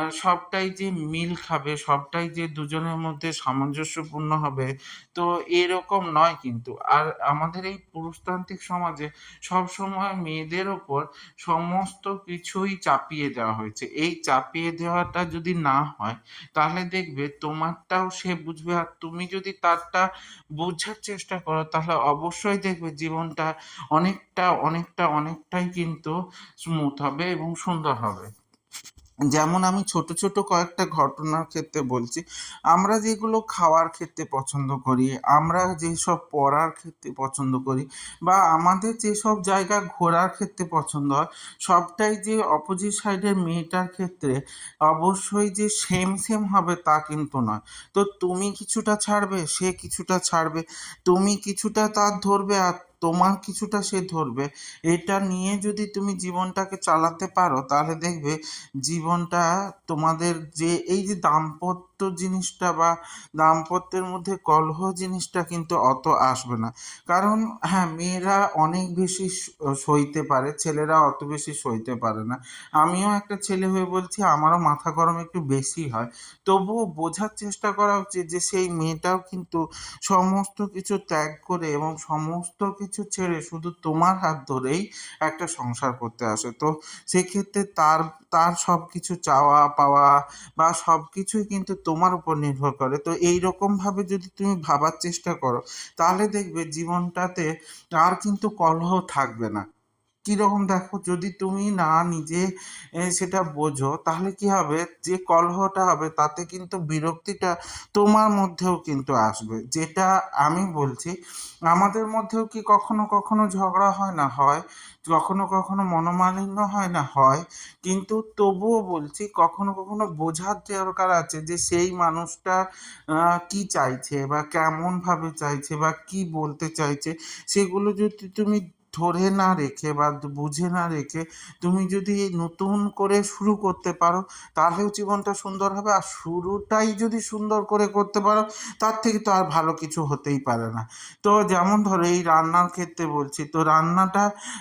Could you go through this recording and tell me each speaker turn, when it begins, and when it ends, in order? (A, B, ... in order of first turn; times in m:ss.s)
0:00.2-0:20.0 A
0:20.6-0:26.1 A
0:26.6-0:28.3 A
0:29.3-0:32.2 A
0:32.7-0:44.4 A
0:44.9-1:09.3 A
1:09.8-1:37.5 A
1:38.0-1:39.6 A
1:40.3-1:42.4 A
1:43.1-1:51.1 A
1:51.7-2:02.6 A
2:03.5-2:24.2 A